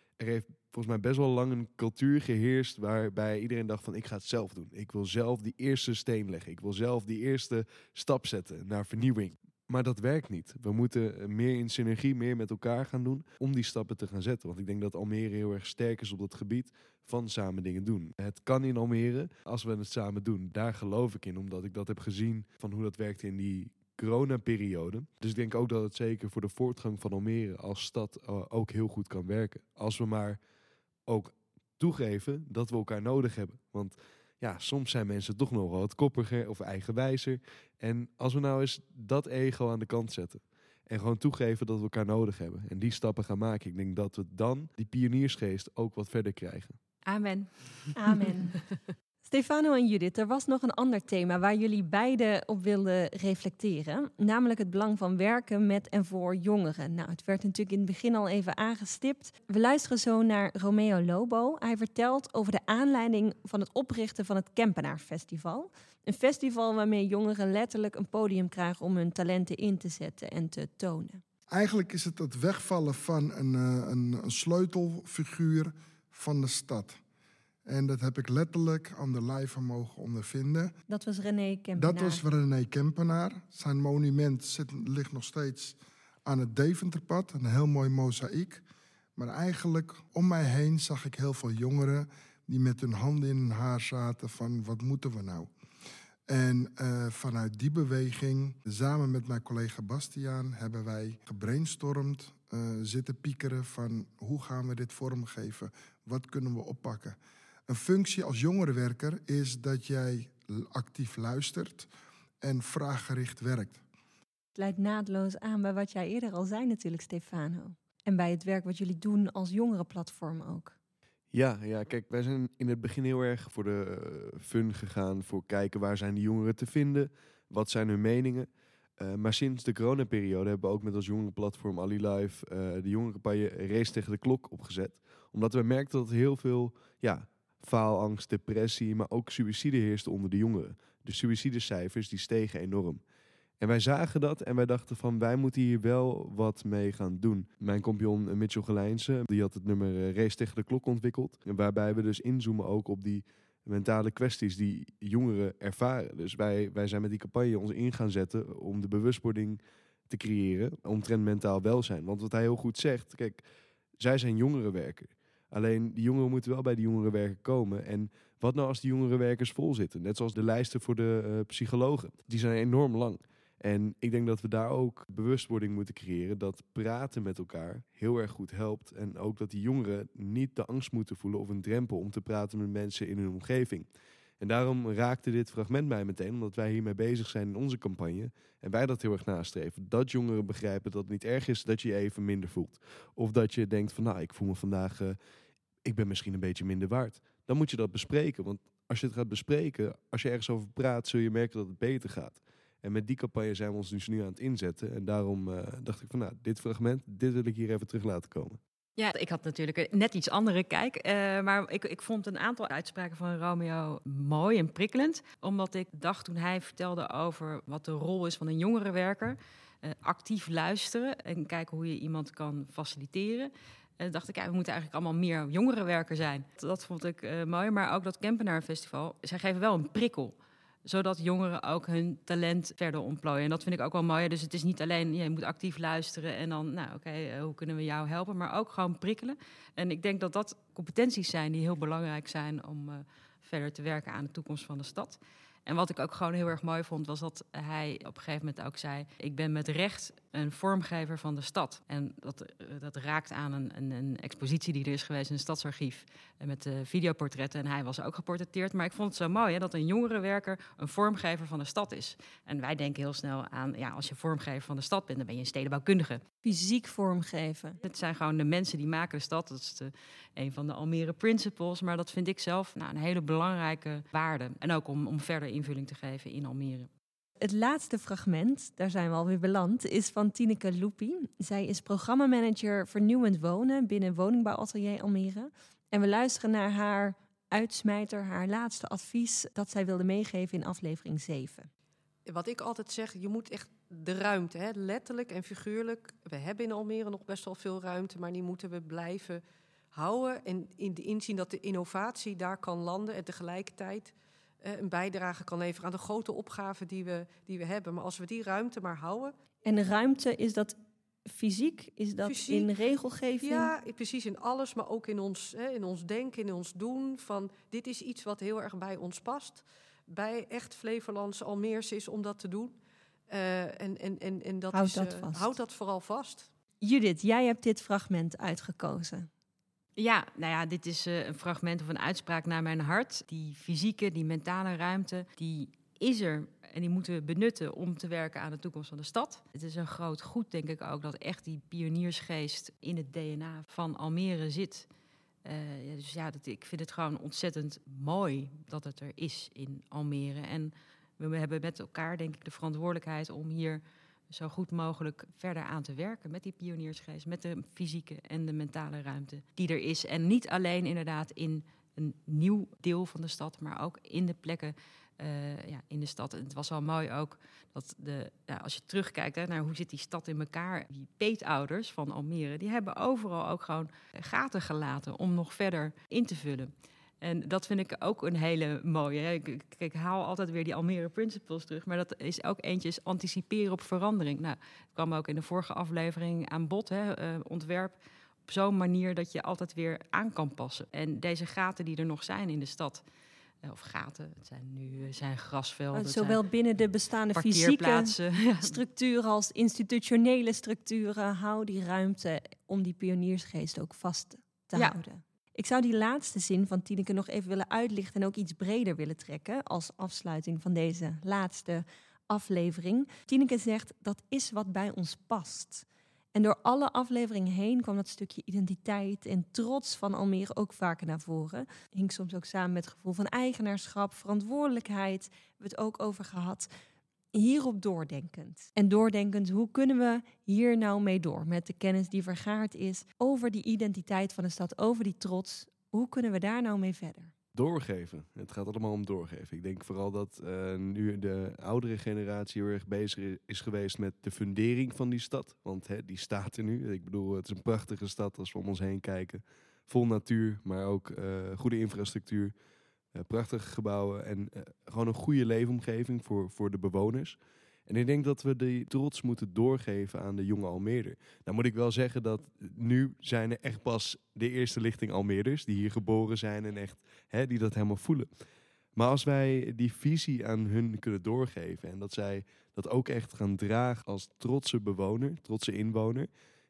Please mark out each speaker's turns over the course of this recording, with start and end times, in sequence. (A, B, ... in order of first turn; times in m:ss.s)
0:00.2-0:30.4 A
0:31.1-0:46.8 A
0:47.0-0:48.0 B
0:48.0-0:48.6 C
0:49.2-1:11.2 C
1:11.5-1:17.0 D
1:17.6-1:20.7 D
1:20.9-1:22.2 C
1:21.8-1:28.6 D
1:29.2-1:35.5 D
1:36.3-1:51.9 D
1:52.4-1:53.8 D
1:54.6-2:00.7 C
2:01.3-2:23.0 A
2:23.6-2:43.4 A
2:44.0-3:03.9 A
3:04.4-3:15.2 A
3:15.8-3:28.6 A
3:29.0-3:50.4 B
3:50.9-4:26.2 B
4:26.4-4:27.8 C
4:27.8-4:36.9 B
4:37.4-4:51.7 C
4:52.2-5:09.3 E
5:09.6-5:10.8 C
5:11.3-5:13.7 C
5:12.2-5:12.7 E
5:13.4-5:22.8 E
5:23.3-5:26.5 E
5:24.7-5:25.5 C
5:26.8-5:29.3 C
5:30.0-5:44.9 B
5:45.4-6:16.7 B
6:17.2-6:33.0 B
6:33.6-6:36.4 B
6:35.9-7:06.7 C
6:37.3-6:38.8 B
7:07.4-7:17.3 C
7:17.5-7:32.5 A
7:33.1-7:48.3 A
7:49.0-7:56.3 A